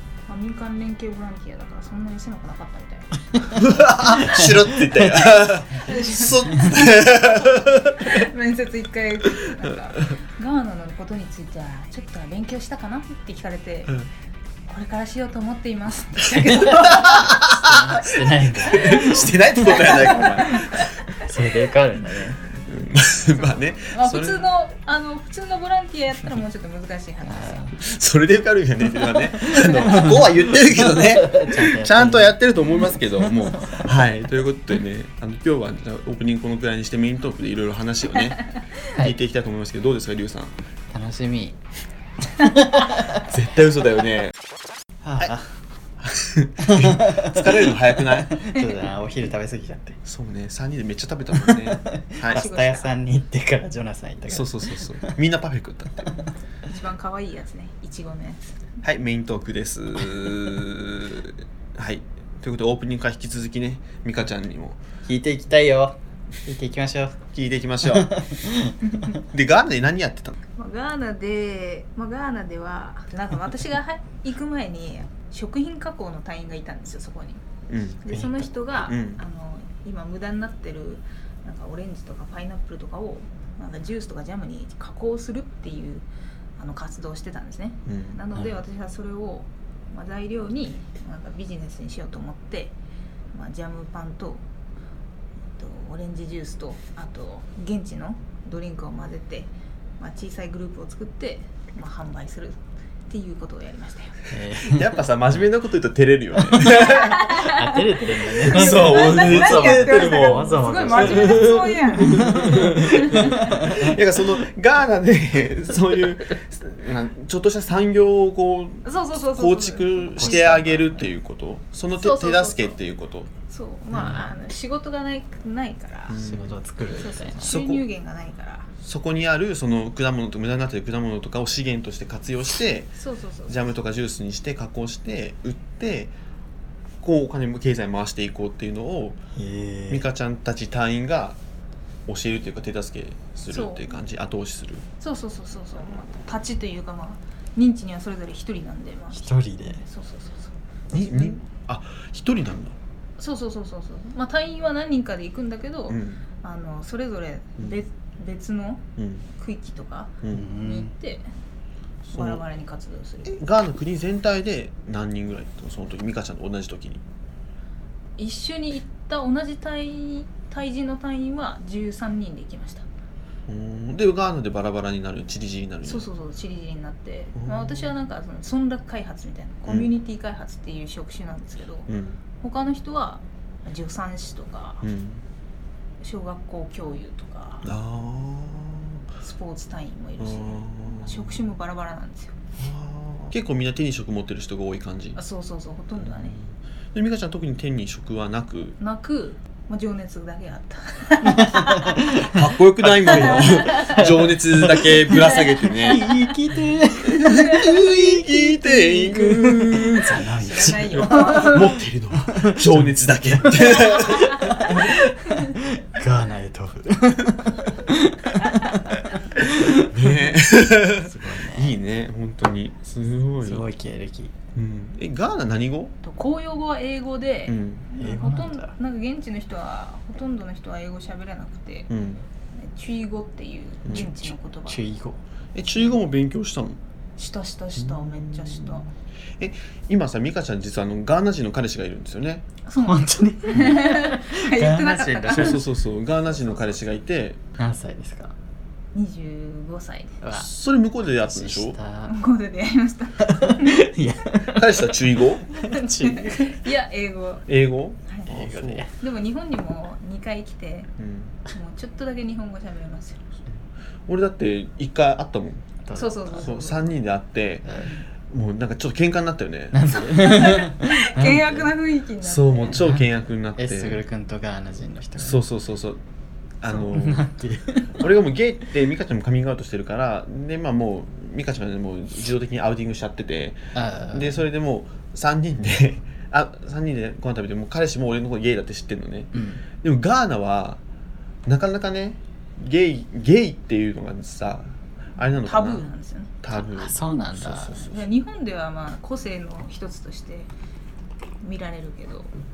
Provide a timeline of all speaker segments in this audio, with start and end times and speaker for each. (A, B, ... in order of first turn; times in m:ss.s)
0:00.3-0:04.4 A
0:03.5-0:08.1 B
0:04.1-0:05.2 C
0:05.1-0:14.0 A
0:14.7-0:17.4 A
0:16.9-0:20.8 B
0:17.3-0:19.9 C
0:18.6-0:20.8 A
0:21.2-0:22.4 C
0:22.7-0:24.5 B
0:23.9-0:27.7 A
0:27.2-0:27.7 C
0:27.8-0:40.5 B
0:29.5-0:32.4 C
0:33.2-0:33.9 C
0:40.9-0:41.6 C
0:42.4-0:43.3 C
0:43.3-0:44.3 B
0:45.0-0:45.5 C
0:46.0-0:48.5 B
0:46.6-0:50.0 C
0:50.0-0:52.4 B
0:51.3-0:55.2 C
0:52.3-0:52.9 A
0:54.3-0:56.2 B
0:56.7-0:58.5 A
0:58.8-1:04.8 B
1:05.0-1:07.2 C
1:07.3-1:08.2 B
1:07.8-1:09.0 C
1:09.3-1:10.4 B
1:10.5-1:17.4 A
1:17.7-1:18.0 B
1:18.0-1:26.0 A
1:18.1-1:18.5 C
1:18.7-1:19.2 B
1:26.6-1:32.7 A
1:27.8-1:28.2 B
1:33.3-1:34.4 A
1:35.6-1:44.3 A
1:44.3-1:45.0 C
1:44.6-1:47.3 B
1:46.6-1:54.0 C
1:46.8-1:53.9 A
1:48.5-2:03.3 B
1:58.8-2:00.7 A
2:00.2-2:01.1 C
2:01.9-2:02.8 A
2:03.5-2:06.2 A
2:06.1-2:06.5 B
2:06.2-2:07.6 C
2:07.0-2:08.7 A
2:07.4-2:07.8 B
2:08.8-2:12.9 B
2:13.0-2:13.6 A
2:13.5-2:16.1 B
2:17.0-2:19.2 B
2:19.4-2:20.1 C
2:19.9-2:21.4 B
2:22.1-2:24.8 B
2:23.5-2:24.0 A
2:25.0-2:31.4 A
2:29.1-2:29.8 C
2:30.9-2:32.8 B
2:33.2-2:38.8 A
2:35.9-2:36.2 B
2:39.0-2:39.2 B
2:39.3-2:41.3 A
2:40.2-2:40.5 B
2:40.3-2:40.9 C
2:42.1-2:43.4 A
2:42.1-2:42.4 B
2:43.3-2:47.0 B
2:48.2-2:52.8 A
2:53.5-2:56.1 B
2:55.8-3:01.9 A
2:57.4-2:57.9 B
3:01.9-3:02.2 B
3:02.4-3:04.8 A
3:04.8-3:05.2 B
3:06.0-3:07.7 A
3:07.6-3:09.0 B
3:09.2-3:12.3 A
3:10.2-3:11.5 B
3:12.6-3:15.2 B
3:15.2-3:16.4 A
3:16.0-3:18.8 B
3:18.8-3:22.0 A
3:21.2-3:22.5 C
3:22.2-3:26.1 B
3:23.0-3:27.4 C
3:23.1-3:24.0 A
3:25.9-3:26.3 A
3:27.0-3:34.9 B
3:27.1-3:31.8 A
3:29.7-3:31.3 C
3:32.3-3:41.8 C
3:33.7-3:35.5 A
3:38.4-3:38.9 A
3:39.8-3:43.6 B
3:43.4-3:44.3 C
3:44.5-3:45.9 B
3:46.0-3:51.9 A
3:47.5-3:47.8 B
3:48.0-3:48.7 C
3:51.9-3:52.2 B
3:52.5-3:54.9 A
3:53.9-3:55.2 C
3:55.5-3:56.8 B
3:55.7-3:56.0 A
3:57.2-3:58.9 A
3:57.8-3:58.8 B
3:59.4-4:02.5 B
4:02.6-4:05.6 A
4:02.8-4:05.7 C
4:05.3-4:07.4 B
4:06.2-4:06.8 A
4:07.6-4:08.4 C
4:08.9-4:10.2 A
4:10.2-4:10.5 C
4:10.3-4:11.8 B
4:11.2-4:12.1 C
4:12.1-4:13.9 A
4:13.2-4:16.6 C
4:14.5-4:15.5 B
4:15.6-4:17.5 A
4:17.5-4:18.8 B
4:18.3-4:18.9 C
4:18.9-4:20.9 A
4:21.0-4:21.4 B
4:21.5-4:23.2 A
4:24.1-4:25.6 B
4:25.8-4:26.6 C
4:25.9-4:26.8 A
4:26.4-4:27.6 B
4:27.6-4:27.9 C
4:28.3-4:30.0 B
4:29.7-4:31.7 C
4:30.1-4:32.8 A
4:32.2-4:34.0 B
4:32.7-4:35.4 C
4:35.2-4:36.0 B
4:36.6-4:37.3 B
4:36.7-4:38.1 C
4:38.0-4:50.8 B
4:43.7-4:44.5 C
4:49.3-4:49.6 C
4:51.4-4:55.9 B
4:55.2-4:56.3 A
4:56.4-4:58.1 B
4:56.7-4:57.8 C
4:57.9-5:00.5 A
5:01.4-5:02.3 A